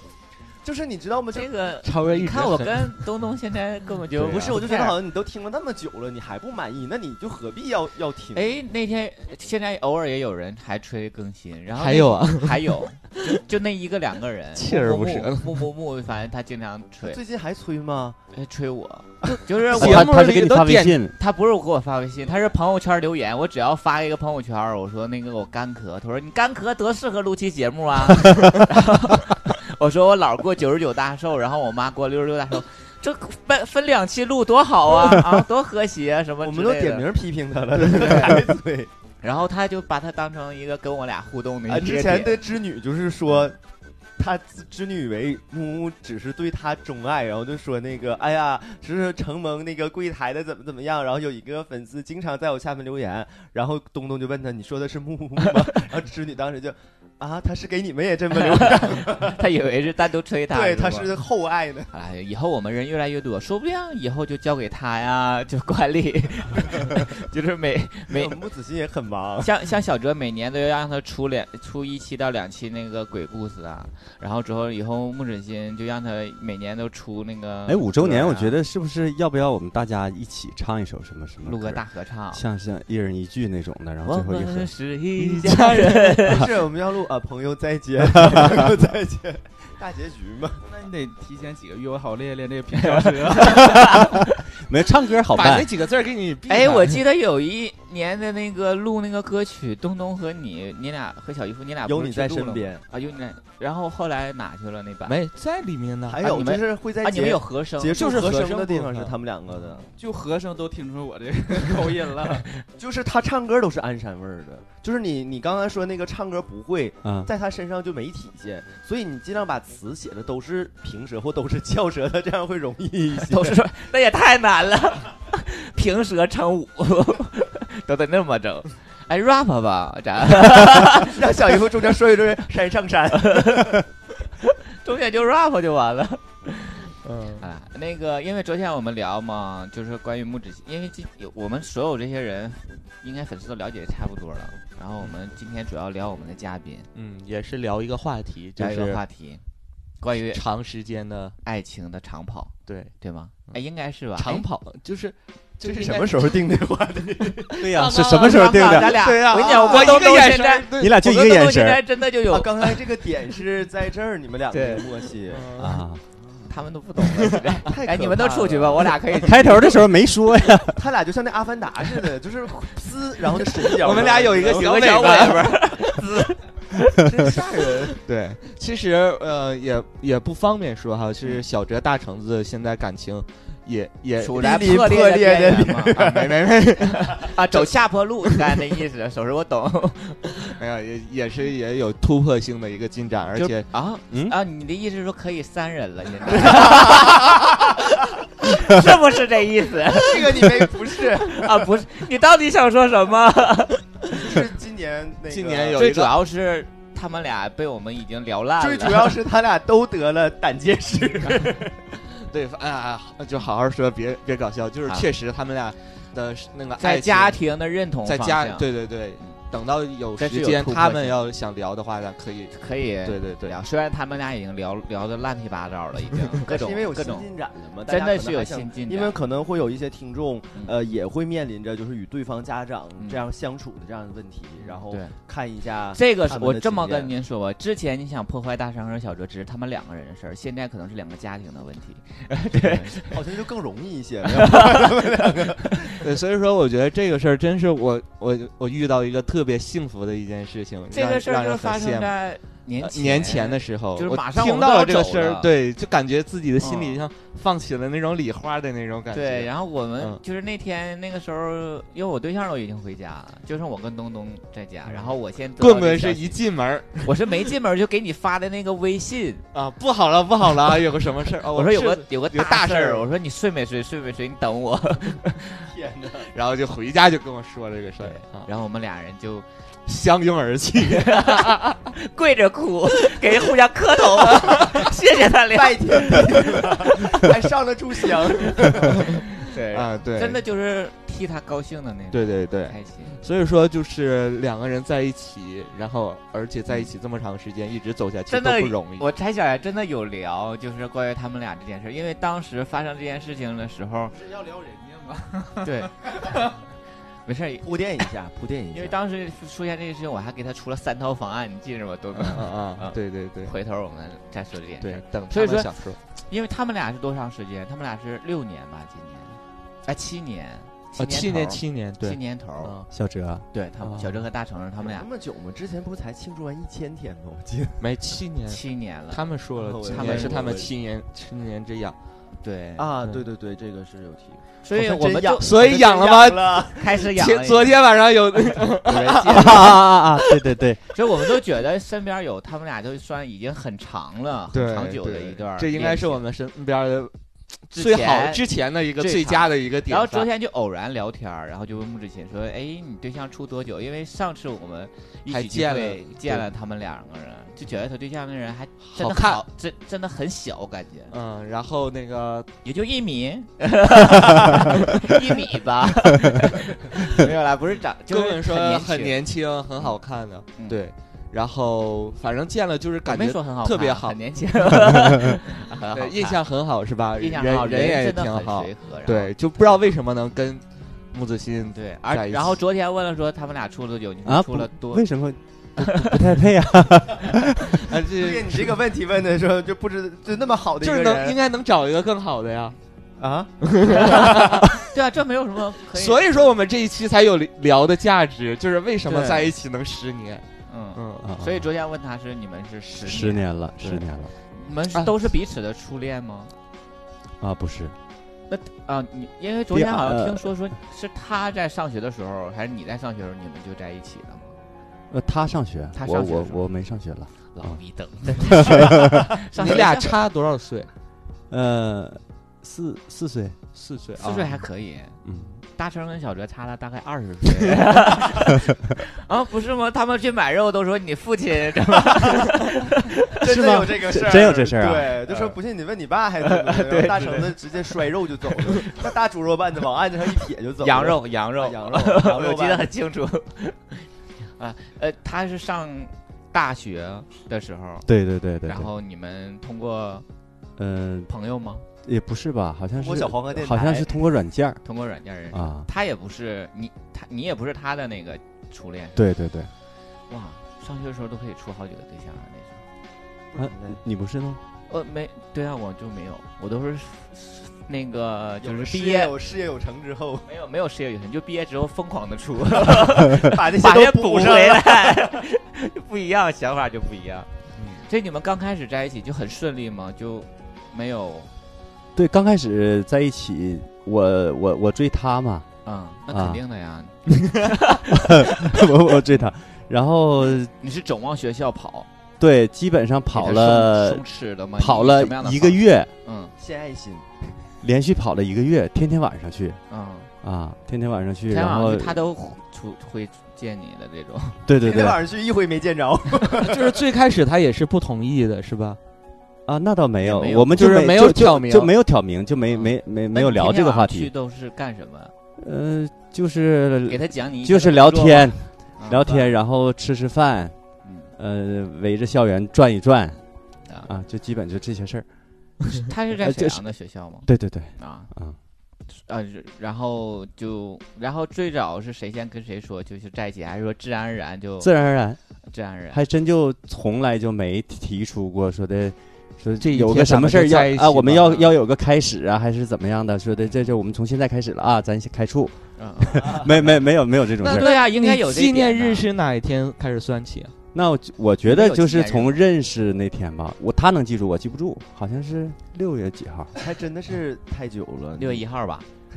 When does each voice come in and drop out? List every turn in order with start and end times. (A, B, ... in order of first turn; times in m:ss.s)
0:00.6-0:01.5 A
0:01.3-0:05.0 B
0:01.8-0:03.0 C
0:04.2-0:04.6 C
0:04.2-0:08.5 A
0:08.3-0:17.2 B
0:11.8-0:12.8 C
0:14.5-0:15.7 C
0:17.0-0:18.2 A
0:18.3-0:20.2 B
0:19.6-0:21.0 C
0:19.7-0:21.1 D
0:21.1-0:37.0 B
0:36.4-0:38.9 A
0:37.8-0:38.5 C
0:39.2-0:42.4 B
0:41.7-0:43.6 A
0:44.2-0:59.4 A
0:58.4-1:01.2 B
1:00.5-1:01.9 A
1:01.9-1:08.3 B
1:08.1-1:09.5 A
1:09.4-1:18.6 B
1:17.7-1:24.7 D
1:21.4-1:22.4 B
1:24.0-1:26.5 B
1:25.2-1:26.2 C
1:26.2-1:30.6 A
1:28.3-1:28.6 D
1:30.6-1:34.0 E
1:33.0-1:34.2 B
1:34.6-1:35.7 D
1:35.3-1:37.0 C
1:36.5-1:45.2 B
1:41.8-1:42.8 A
1:45.0-1:46.2 C
1:46.1-1:49.9 A
1:46.2-1:48.0 B
1:47.9-1:49.2 C
1:50.0-1:52.5 E
1:52.8-2:03.6 A
1:57.0-1:57.3 D
2:03.3-2:11.2 B
2:10.9-2:13.8 A
2:13.1-2:13.8 B
2:14.4-2:26.9 B
2:17.0-2:17.4 C
2:26.9-2:29.0 C
2:28.6-2:29.4 B
2:30.0-2:30.4 B
2:30.3-2:31.4 C
2:31.4-2:34.4 B
2:32.7-2:32.9 C
2:34.2-2:36.4 C
2:35.6-2:37.7 A
2:37.6-2:39.1 D
2:37.6-2:41.1 C
2:37.8-2:42.8 B
2:39.2-2:40.1 A
2:40.8-2:41.8 D
2:42.2-2:45.5 A
2:44.5-2:44.9 B
2:45.3-2:45.8 C
2:45.5-2:46.0 D
2:46.5-2:49.8 B
2:47.6-2:49.1 A
2:49.2-2:50.8 D
2:50.7-2:54.8 A
2:53.6-2:55.6 C
2:54.4-2:57.8 B
2:57.2-3:04.8 C
3:04.2-3:10.5 B
3:04.3-3:06.3 A
3:05.9-3:07.7 C
3:10.5-3:13.7 C
3:13.4-3:23.8 B
3:16.5-3:17.0 C
3:16.8-3:17.1 A
3:19.9-3:21.6 A
3:24.1-3:25.8 A
3:25.3-3:26.1 C
3:25.7-3:29.2 B
3:28.6-3:31.8 A
3:32.2-3:37.4 C
3:36.8-3:39.4 B
3:38.0-3:43.6 C
3:40.2-3:41.2 B
3:42.5-3:47.3 B
3:46.4-3:57.1 A
3:47.8-3:49.1 B
3:54.6-3:55.2 B
3:55.9-4:03.2 B
4:02.5-4:06.0 A
4:04.4-4:05.0 B
4:06.0-4:12.1 C
4:10.9-4:15.5 B
4:12.8-4:20.2 C
4:16.6-4:17.0 B
4:19.1-4:26.4 B
4:24.9-4:27.1 C
4:27.0-4:29.4 B
4:29.5-4:33.1 C
4:31.5-4:35.6 B
4:35.6-4:36.3 A
4:36.3-4:38.5 C
4:38.0-4:39.4 B
4:39.8-4:41.7 C
4:40.9-4:47.2 B
4:45.5-4:49.2 A
4:49.4-4:53.2 B
4:49.7-4:50.4 C
4:52.1-4:59.0 C
4:58.3-5:04.2 B
5:04.2-5:06.5 E
5:05.6-5:06.4 B
5:07.2-5:07.7 B
5:07.6-5:09.0 A
5:08.7-5:22.7 B
5:12.2-5:13.5 C
5:14.8-5:16.0 C
5:21.0-5:22.9 C
5:22.9-5:24.2 D
5:23.5-5:25.1 B
5:24.8-5:27.8 A
5:27.8-5:32.0 C
5:28.5-5:29.2 B
5:29.6-5:30.7 A
5:29.9-5:30.5 B
5:32.4-5:32.9 B
5:32.8-5:36.9 A
5:34.6-5:35.4 B
5:35.4-5:39.8 C
5:36.7-5:37.8 B
5:38.7-5:39.8 B
5:39.3-5:40.8 D
5:40.9-5:46.2 B
5:44.5-5:47.1 C
5:47.7-5:50.3 C
5:47.7-5:48.4 B
5:49.0-6:01.1 B
5:55.3-5:56.5 C
5:58.8-5:59.4 C
6:01.1-6:02.5 C
6:02.6-6:09.2 B
6:08.1-6:14.2 C
6:13.1-6:16.4 B
6:15.9-6:22.6 C
6:17.2-6:19.9 B
6:21.7-6:25.0 B
6:24.2-6:27.8 D
6:25.8-6:26.2 B
6:28.1-6:31.4 A
6:30.8-6:32.8 C
6:33.2-6:33.5 A
6:33.6-6:34.8 C
6:33.9-6:36.6 B
6:35.9-6:41.2 C
6:39.0-6:39.5 B
6:40.7-6:46.5 B
6:41.2-6:41.7 D
6:43.0-6:44.3 D
6:47.4-6:47.9 D
6:48.5-6:54.6 B
6:49.7-6:50.5 D
6:55.1-6:57.8 D
6:55.9-6:56.7 B
6:57.5-7:00.1 B
6:58.4-6:59.2 D
6:59.5-7:00.9 C
7:01.5-7:03.6 D
7:03.7-7:04.6 C
7:04.2-7:05.2 B
7:05.2-7:05.5 D
7:05.7-7:13.4 B
7:13.4-7:22.9 A
7:13.4-7:15.1 D
7:15.3-7:15.5 B
7:16.4-7:18.0 B
7:18.6-7:19.0 B
7:20.8-7:28.1 B
7:28.0-7:28.9 D
7:28.7-7:30.2 B
7:30.8-7:31.3 D
7:31.3-7:31.8 B
7:32.0-7:34.8 D
7:33.0-7:34.2 A
7:34.8-7:39.2 B
7:35.5-7:35.9 D
7:39.2-7:39.7 D
7:40.3-7:42.8 B
7:43.5-7:44.0 A
7:43.6-7:44.6 D
7:44.9-7:49.3 B
7:48.6-7:50.5 A
7:50.4-7:57.5 B
7:53.2-7:55.2 A
7:57.8-7:58.0 C
7:58.0-8:01.5 B
8:02.1-8:05.7 D
8:05.8-8:08.3 B
8:06.3-8:06.6 D
8:08.1-8:10.7 D
8:10.5-8:12.1 B
8:12.4-8:14.2 D
8:13.3-8:16.5 B
8:14.8-8:16.1 D
8:16.6-8:17.2 A
8:17.8-8:19.8 D
8:19.9-8:20.3 B
8:20.4-8:22.2 D
8:21.5-8:24.6 B
8:24.6-8:25.2 D
8:24.8-8:26.9 A
8:26.6-8:29.0 C
8:29.6-8:34.3 D
8:30.2-8:30.8 B
8:30.8-8:31.9 C
8:32.7-8:35.3 B
8:35.6-8:40.7 D
8:37.1-8:39.5 B
8:41.0-8:41.3 B
8:41.4-8:43.4 D
8:44.1-8:45.2 D
8:46.0-8:48.3 B
8:46.4-8:46.8 D
8:47.4-8:48.6 D
8:49.1-8:54.9 B
8:54.8-8:55.4 D
8:55.6-8:56.2 B
8:56.1-9:07.9 D
8:59.8-9:01.7 C
9:06.0-9:07.0 B
9:07.6-9:10.7 C
9:07.6-9:09.2 B
9:10.9-9:16.7 D
9:11.6-9:12.6 B
9:16.8-9:18.6 A
9:18.4-9:19.0 B